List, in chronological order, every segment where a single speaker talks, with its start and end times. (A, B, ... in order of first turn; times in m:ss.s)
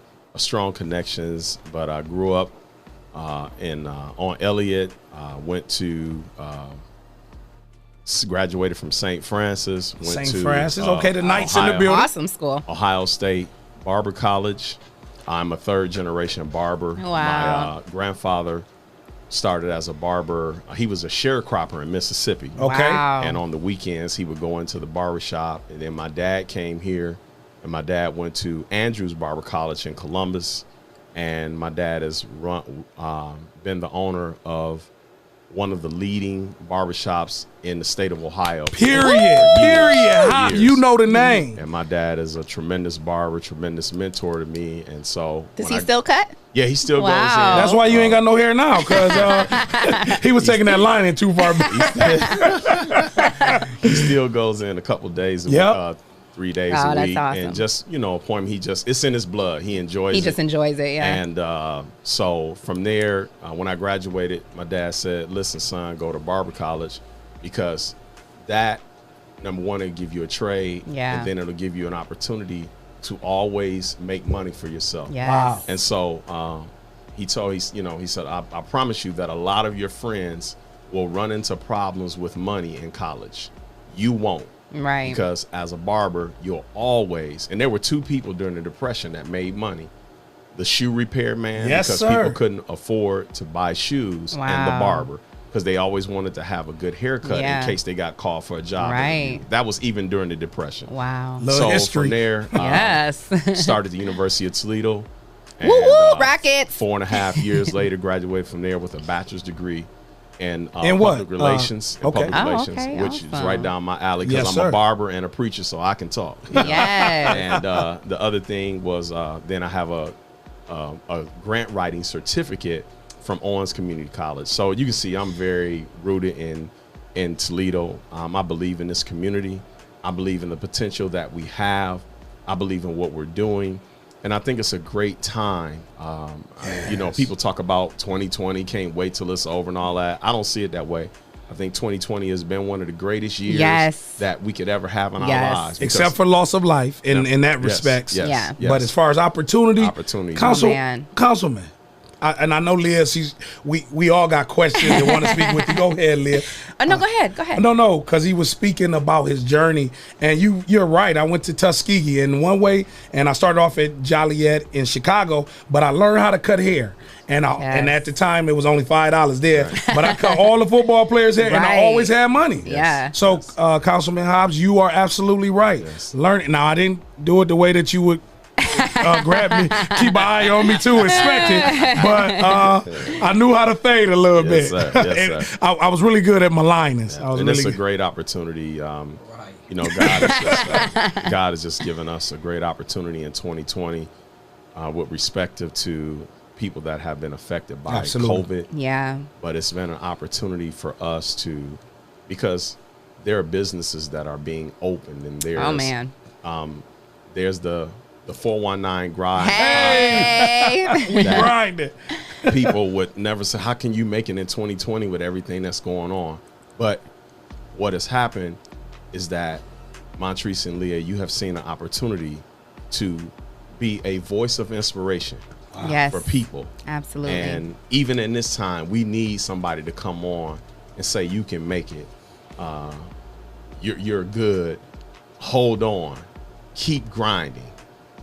0:00.3-0:02.5 A
0:03.1-0:06.8 A
0:08.0-0:12.0 A
0:10.0-0:12.1 B
0:11.7-0:12.6 C
0:12.6-0:18.7 A
0:17.0-0:17.7 C
0:19.3-0:34.9 A
0:22.6-0:23.0 B
0:22.6-0:23.4 C
0:35.5-0:40.8 A
0:38.7-0:41.6 B
0:38.9-0:39.6 C
0:41.1-0:41.4 C
0:41.5-0:45.9 A
0:45.6-0:46.4 C
0:46.5-0:48.2 A
0:46.9-0:47.8 C
0:47.5-0:54.1 B
0:48.8-0:50.8 A
0:48.9-0:50.2 C
0:51.4-0:52.5 C
0:51.6-0:53.1 A
0:53.3-0:53.6 C
0:53.8-1:00.4 A
0:55.5-0:55.8 B
0:56.7-0:57.6 C
1:00.1-1:01.2 C
1:01.0-1:08.8 A
1:09.4-1:24.5 A
1:10.8-1:11.3 C
1:15.1-1:15.6 C
1:15.2-1:15.6 B
1:24.7-1:25.2 C
1:25.0-1:29.9 A
1:30.5-1:40.9 A
1:31.6-1:32.4 B
1:34.3-1:35.1 C
1:37.2-1:37.8 C
1:38.8-1:39.4 C
1:40.9-1:41.5 C
1:41.4-1:42.2 B
1:41.4-2:00.1 A
1:42.5-1:43.7 C
1:45.6-1:47.8 C
1:50.8-1:52.4 B
1:52.3-1:53.7 C
1:54.2-1:54.8 B
1:56.6-1:57.6 B
1:56.6-1:57.4 C
2:00.7-2:26.2 A
2:16.7-2:17.2 B
2:23.4-2:24.2 C
2:25.2-2:25.7 C
2:25.8-2:58.2 B
2:27.1-2:28.9 A
2:28.2-2:28.6 C
2:29.8-2:30.6 A
2:30.4-2:31.1 C
2:34.8-2:37.6 C
2:47.6-2:48.0 C
2:49.5-2:49.8 A
2:49.8-2:50.5 C
2:51.4-2:53.1 C
2:52.6-2:53.5 A
2:55.8-2:56.1 A
2:58.6-3:02.8 C
2:58.8-3:07.8 B
3:01.1-3:02.0 A
3:02.8-3:03.2 A
3:04.4-3:05.5 A
3:07.1-3:14.1 A
3:09.8-3:10.8 B
3:10.2-3:11.3 C
3:14.7-3:18.7 A
3:17.9-3:18.5 B
3:18.7-3:19.3 C
3:19.4-3:30.5 A
3:25.5-3:26.1 C
3:29.4-3:31.5 C
3:29.5-3:32.7 B
3:31.2-3:31.5 A
3:32.5-3:37.0 A
3:37.7-3:38.6 A
3:39.1-3:39.6 A
3:40.2-3:46.7 A
3:45.7-3:46.0 B
3:45.8-3:46.3 C
3:46.8-3:47.6 C
3:47.2-3:53.1 A
3:53.8-3:54.8 A
3:55.4-3:57.8 A